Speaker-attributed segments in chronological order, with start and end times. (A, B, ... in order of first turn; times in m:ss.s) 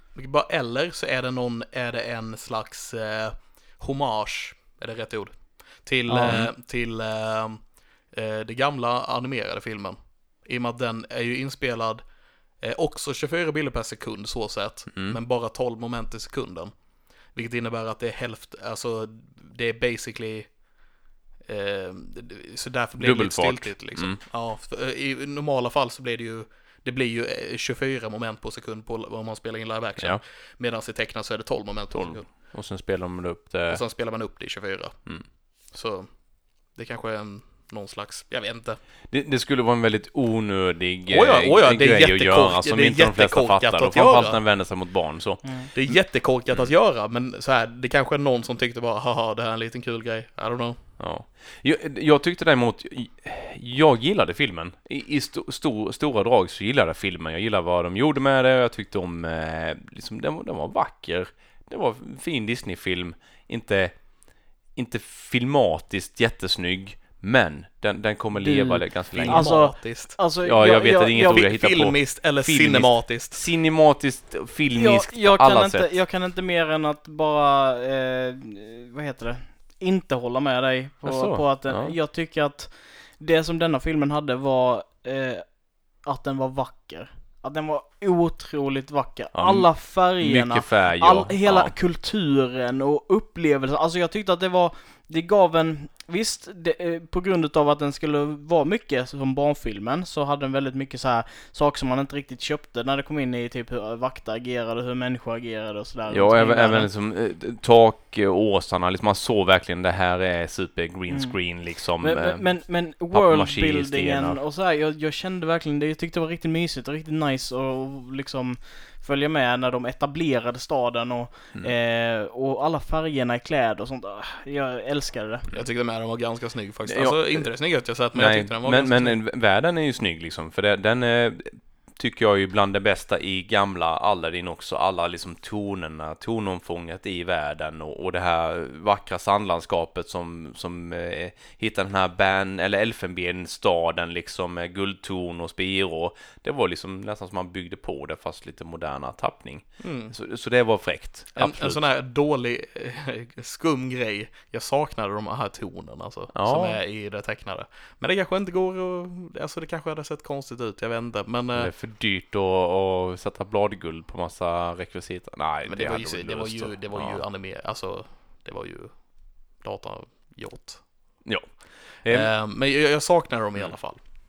0:00.1-0:20.8 A
0:06.1-0:06.4 B
0:06.3-0:06.5 C
0:14.9-0:15.2 C
0:21.5-0:32.3 A
0:23.0-0:24.2 C
0:31.9-0:33.8 C
0:33.7-0:38.8 A
0:39.1-0:46.7 C
0:41.1-0:44.4 A
0:45.4-0:45.7 B
0:45.8-0:50.8 A
0:51.0-1:09.8 C
1:08.3-1:11.5 B
1:09.1-1:10.2 A
1:10.4-1:16.0 C
1:11.1-1:13.4 A
1:14.7-1:46.9 B
1:21.0-1:22.0 C
1:29.3-1:31.8 C
1:46.1-1:54.4 C
1:51.1-2:05.5 B
2:05.5-2:09.2 A
2:06.9-2:07.5 C
2:08.1-2:31.8 C
2:29.8-2:30.2 A
2:31.4-2:41.7 A
2:36.3-2:36.8 C
2:41.5-2:47.2 C
2:45.6-2:51.2 A
2:51.2-2:52.3 C
2:52.1-2:54.0 A